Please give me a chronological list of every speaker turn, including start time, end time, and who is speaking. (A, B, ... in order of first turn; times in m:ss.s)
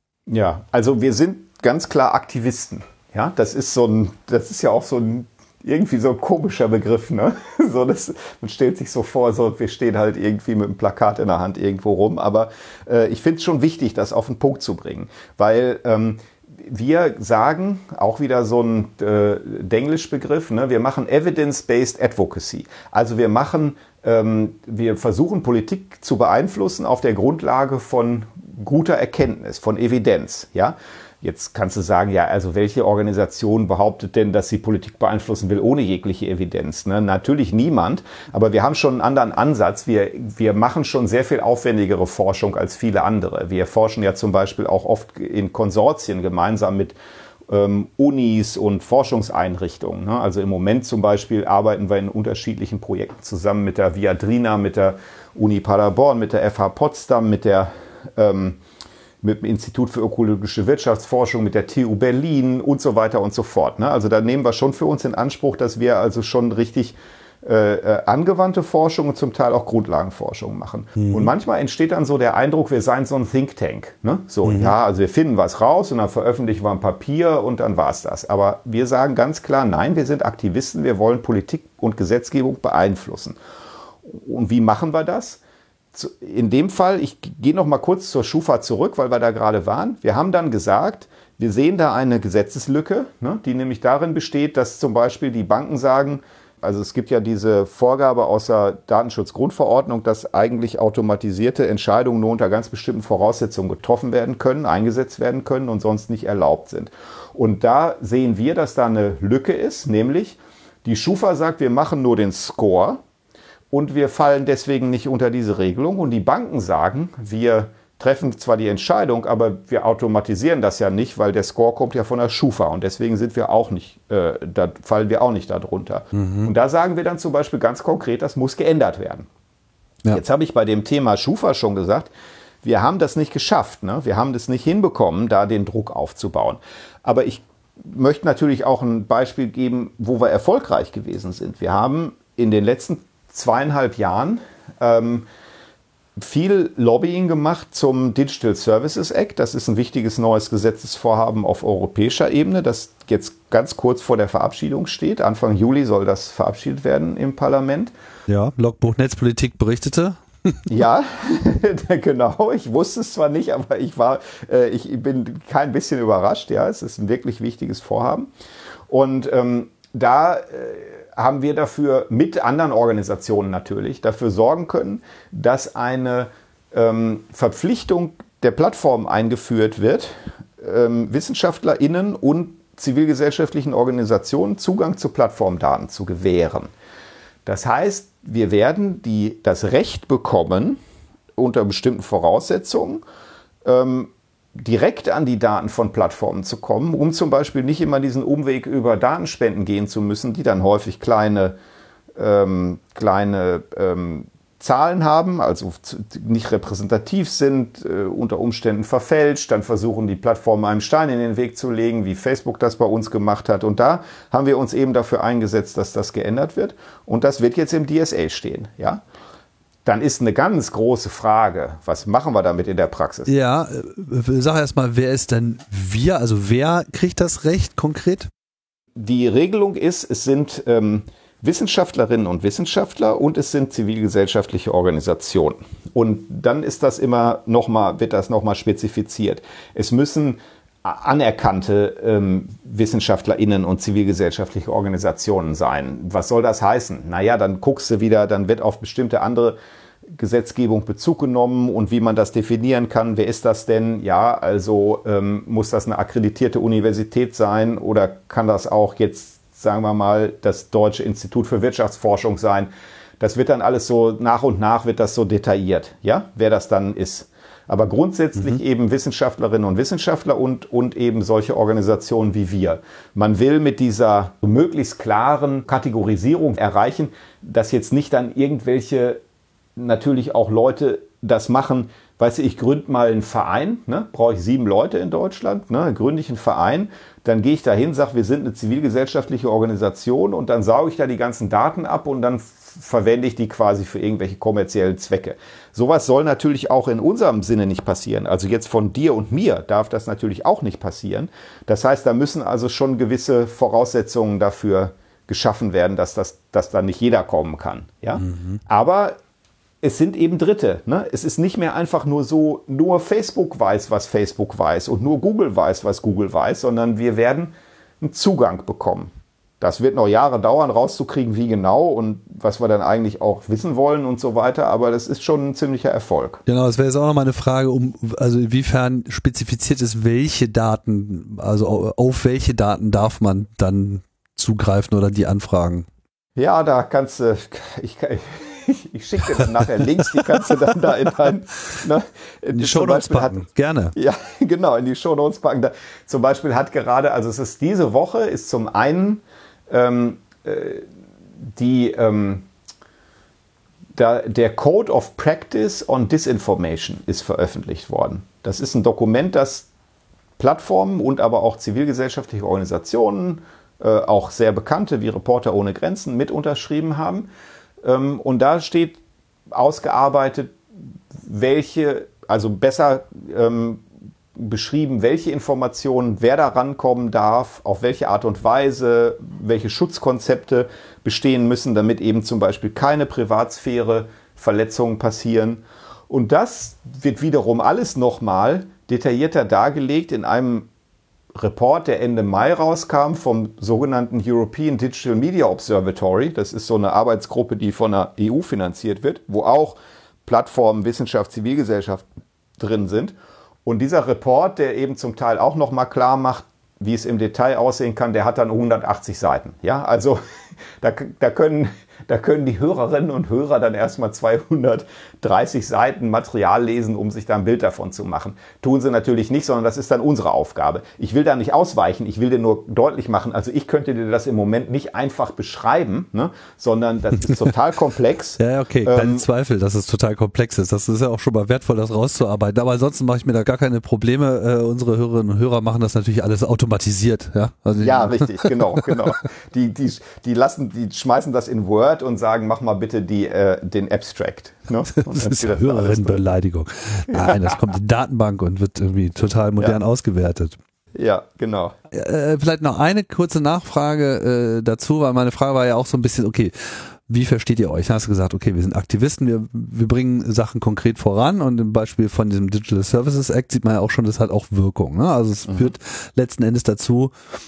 0:00.3-0:47.0 A
0:47.5-0:58.6 A
0:59.2-1:23.4 A
1:11.0-1:11.3 B
1:14.4-1:14.7 B
1:24.0-1:25.4 A
1:25.9-1:53.0 A
1:53.7-2:09.3 A
2:06.1-2:06.5 B
2:10.1-2:12.1 A
2:12.6-2:25.2 A
2:26.2-2:37.9 A
2:38.3-2:40.7 B
2:40.7-2:48.3 A
2:48.9-3:06.7 A
3:07.4-3:10.8 A
3:11.4-3:13.0 A
3:13.6-3:21.6 A
3:22.2-3:39.0 A
3:39.8-3:43.3 A
3:43.3-3:48.3 B
3:49.0-4:09.6 A
4:10.1-4:22.7 A
4:23.2-4:39.2 A
4:39.8-5:09.1 A
5:08.2-5:08.6 B
5:09.8-5:26.4 A
5:26.4-5:35.8 B
5:36.4-5:50.8 A
5:42.5-5:43.9 B
5:51.4-5:52.4 A
5:53.9-5:59.7 A
6:00.4-6:07.3 A
6:07.8-6:09.0 A
6:09.5-6:10.6 A
6:11.2-6:13.8 A
6:14.3-6:30.7 A
6:31.4-6:42.0 A
6:42.6-6:50.2 A
6:50.8-7:09.2 A
7:08.4-7:18.9 B
7:17.8-7:26.2 A
7:25.0-7:30.6 B
7:27.1-7:27.6 A
7:30.9-7:31.7 A
7:31.9-7:47.1 B